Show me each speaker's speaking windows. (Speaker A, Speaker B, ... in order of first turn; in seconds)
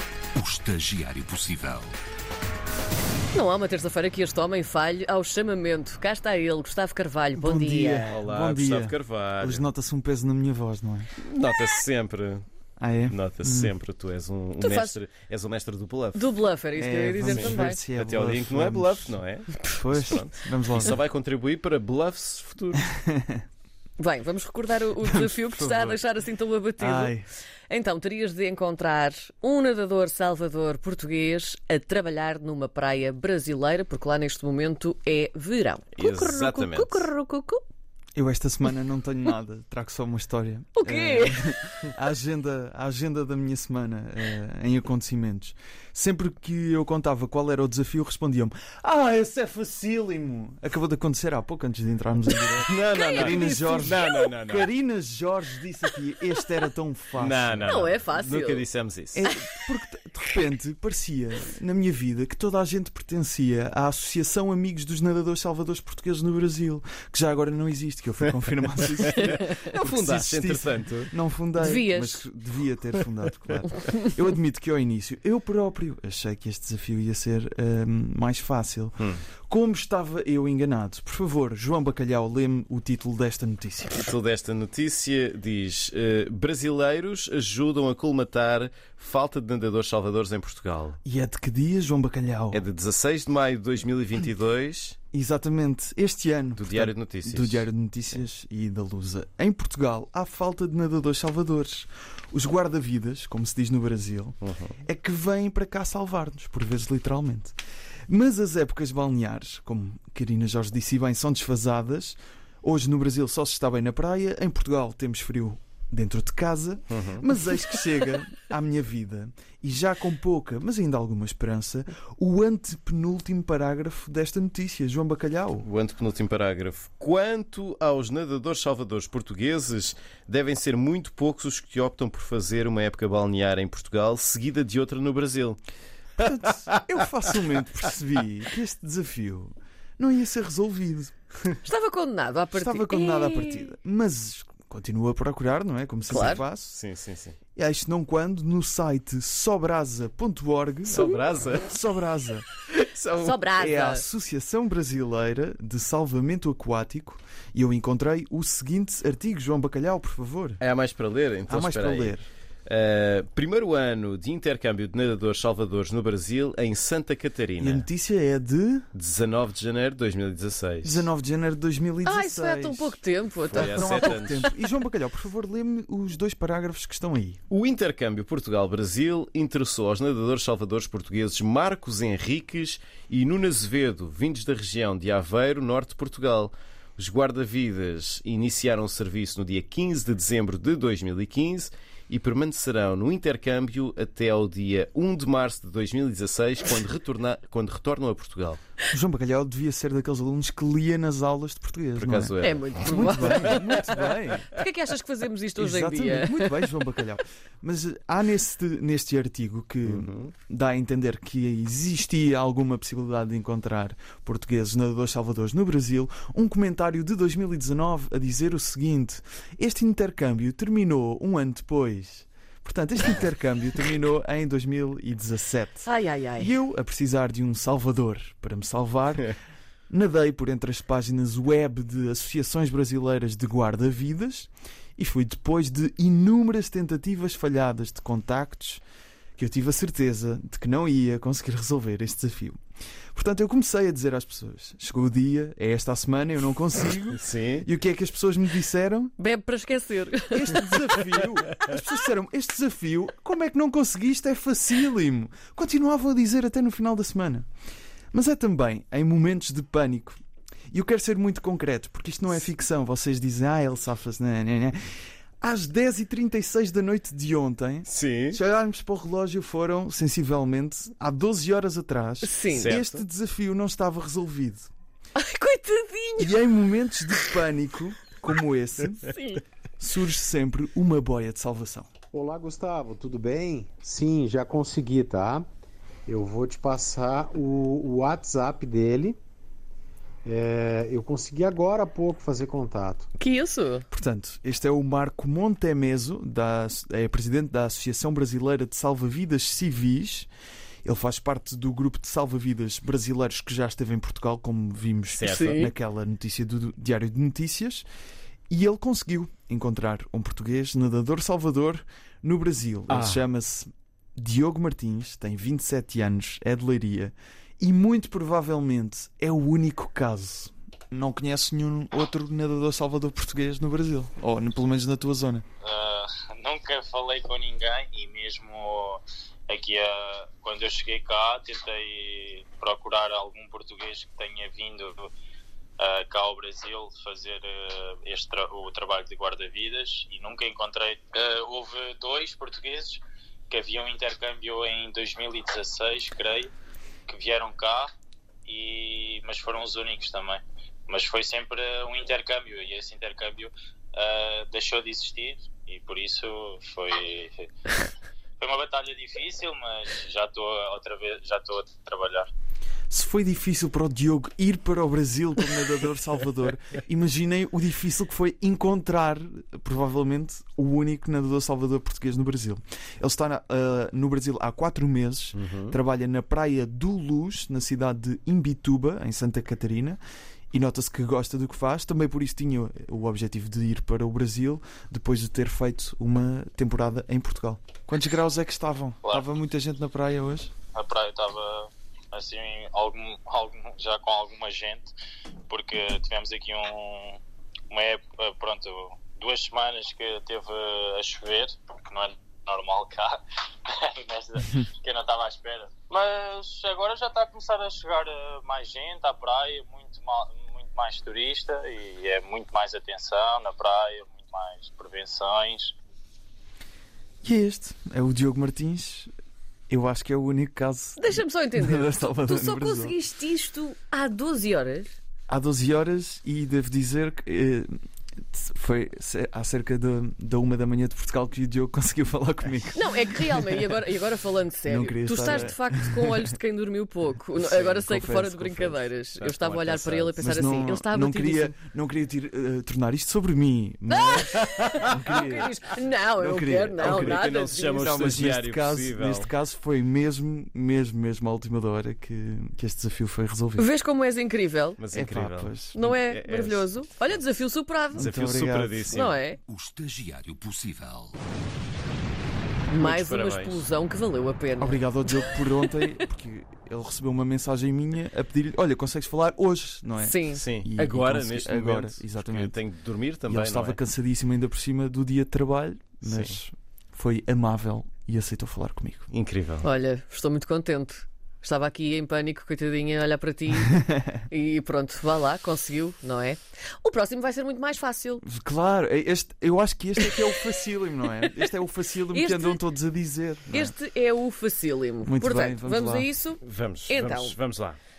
Speaker A: 0.3-2.0, 459.5-461.2
Speaker B: 3.3-8.1, 14.6-15.0, 16.1-17.8, 24.0-27.2, 27.7-37.6, 40.8-41.4, 53.0-54.3, 57.7-58.7, 71.6-72.2, 141.6-143.7, 146.1-146.4, 153.2-154.1, 172.0-174.2, 202.4-203.9, 204.5-206.8, 225.8-226.5, 249.2-251.0, 272.2-272.8, 275.2-276.4, 279.0-279.4, 293.2-293.9, 305.3-305.7, 421.0-425.0, 432.7-441.5, 443.9-447.9, 453.6-454.8, 455.8-458.1, 458.9-459.4, 462.7-465.1, 470.0-470.4, 479.6-488.2, 492.1-492.6, 493.5-497.4
Speaker C: 7.4-11.1, 12.8-13.7, 16.8-19.2, 19.7-21.0, 23.0-23.4, 25.1-26.0, 26.8-27.3, 38.2-57.7, 59.1-84.0, 91.0-92.6, 95.1-107.5, 108.1-125.7, 136.2-141.2, 142.5-146.8, 147.6-160.6, 161.5-162.3, 167.6-168.9, 170.8-173.0, 173.5-177.4, 198.9-204.5, 205.6-229.4, 229.9-238.8, 239.4-242.6, 243.1-249.2, 250.3-257.5, 258.1-260.2, 260.7-264.8, 265.4-274.7, 276.2-279.1, 279.8-281.9, 293.9-300.3, 300.9-307.9, 308.5-325.5, 362.9-380.0, 380.5-390.5, 417.2-419.1, 419.7-423.0, 425.3-427.7, 428.3-433.6, 434.7-436.4, 437.4-438.9, 440.2-445.5, 446.2-453.7, 454.9-455.9, 457.9-458.9, 464.6-472.6, 473.3-479.1, 488.2-493.8, 495.0-496.1
Speaker D: 8.1-9.7, 11.2-12.4, 13.1-16.4, 17.2-22.9, 36.0-37.1, 52.4-54.7, 57.2-59.2, 69.0-71.1, 83.9-91.0, 92.5-95.0, 96.6-98.2, 104.4-104.8, 116.9-117.3, 125.6-135.6, 146.7-147.4, 150.9-151.8, 160.6-167.9, 168.9-171.1, 173.5-174.5, 177.5-198.6, 202.0-203.9, 209.8-210.3, 247.1-247.7, 267.9-268.4, 272.5-273.1, 305.1-305.6, 312.9-313.2, 375.4-375.8, 439.2-440.2, 446.8-449.3, 454.8-457.3, 457.9-459.2, 462.8-463.7, 470.3-473.8, 476.1-476.4, 479.1-479.7, 496.4-497.8
Speaker E: 282.1-285.5, 286.1-289.2, 290.2-293.1
Speaker F: 325.6-335.1, 335.8-346.5, 347.1-347.9, 348.5-357.5, 358.4-362.3, 390.8-394.9, 395.5-415.7